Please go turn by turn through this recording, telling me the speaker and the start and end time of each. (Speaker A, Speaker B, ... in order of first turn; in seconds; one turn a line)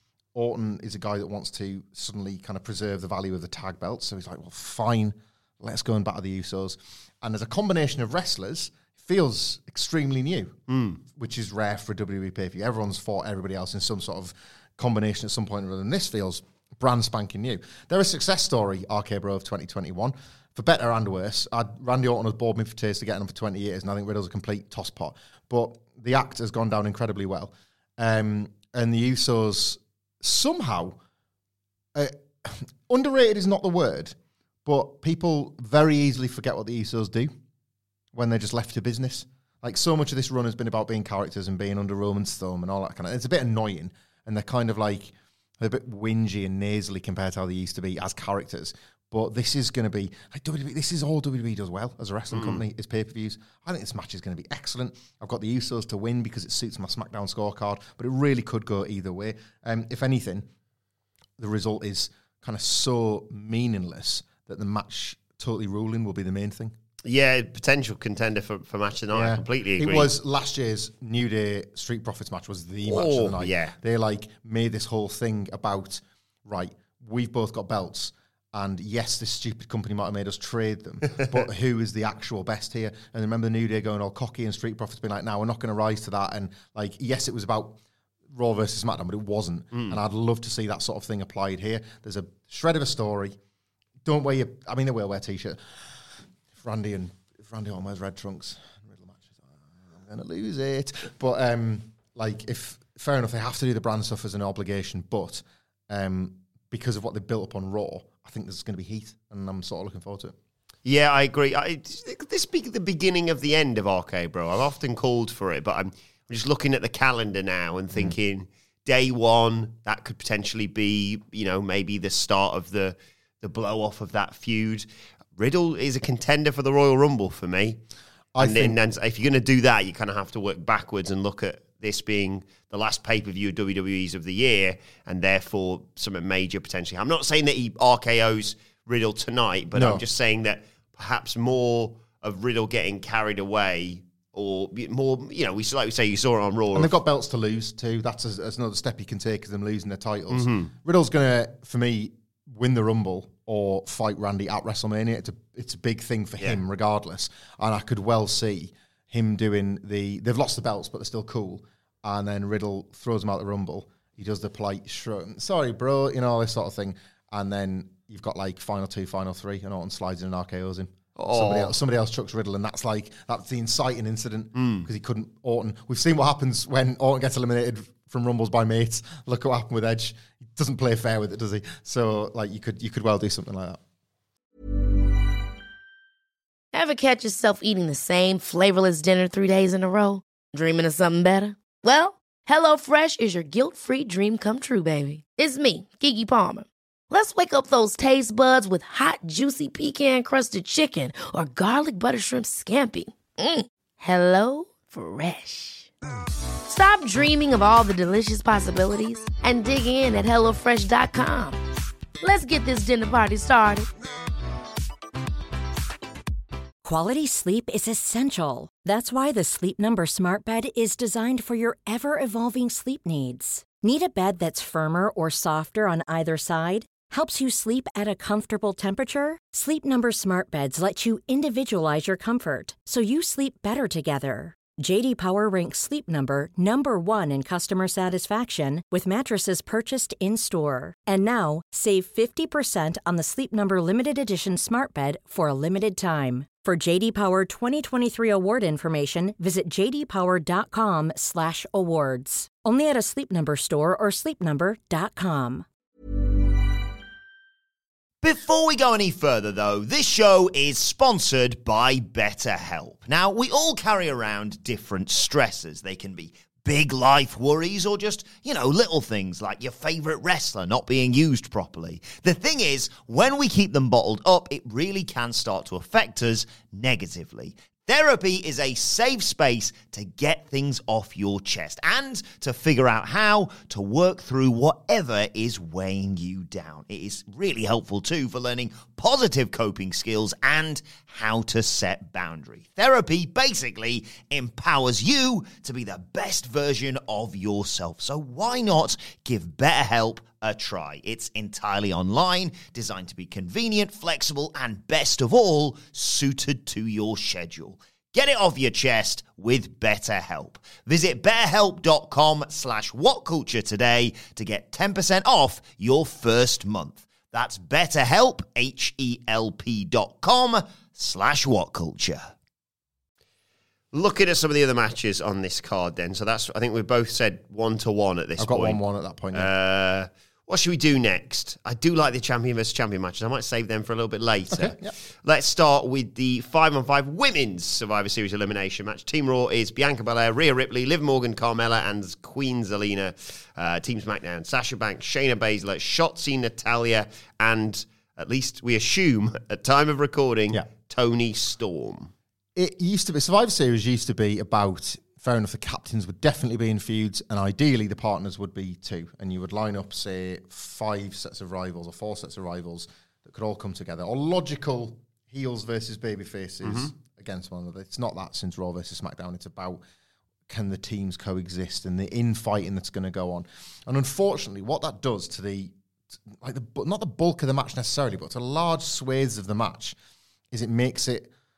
Speaker A: 0.3-31.0
Speaker B: 10.7-11.0
Speaker A: 31.9-37.3
Speaker A: 38.1-60.5
Speaker B: 52.3-52.6
Speaker A: 61.4-66.7
Speaker B: 67.0-70.1
Speaker A: 69.1-87.8
Speaker B: 72.8-73.8
Speaker A: 88.3-93.4
Speaker B: 89.7-90.0
Speaker A: 94.0-96.0
Speaker A: 96.6-110.3
Speaker B: 110.8-124.9
Speaker B: 125.4-127.8
Speaker A: 128.3-128.8
Speaker B: 128.4-147.0
Speaker A: 139.7-140.0
Speaker A: 146.7-183.8
Speaker B: 150.3-150.7
Speaker B: 171.2-171.8
Speaker B: 174.6-174.9
Speaker C: 186.7-205.9
Speaker C: 206.7-211.6
Speaker C: 212.2-213.9
Speaker D: 216.8-255.7
Speaker E: 258.2-322.3
Speaker B: 323.9-328.8
Speaker A: 328.4-329.5
Speaker B: 329.3-352.1
Speaker A: 334.5-334.9
Speaker A: 352.6-369.8
Speaker B: 366.6-366.9
Speaker A: 370.5-375.7
Speaker A: 376.3-379.9
Speaker A: 380.5-381.3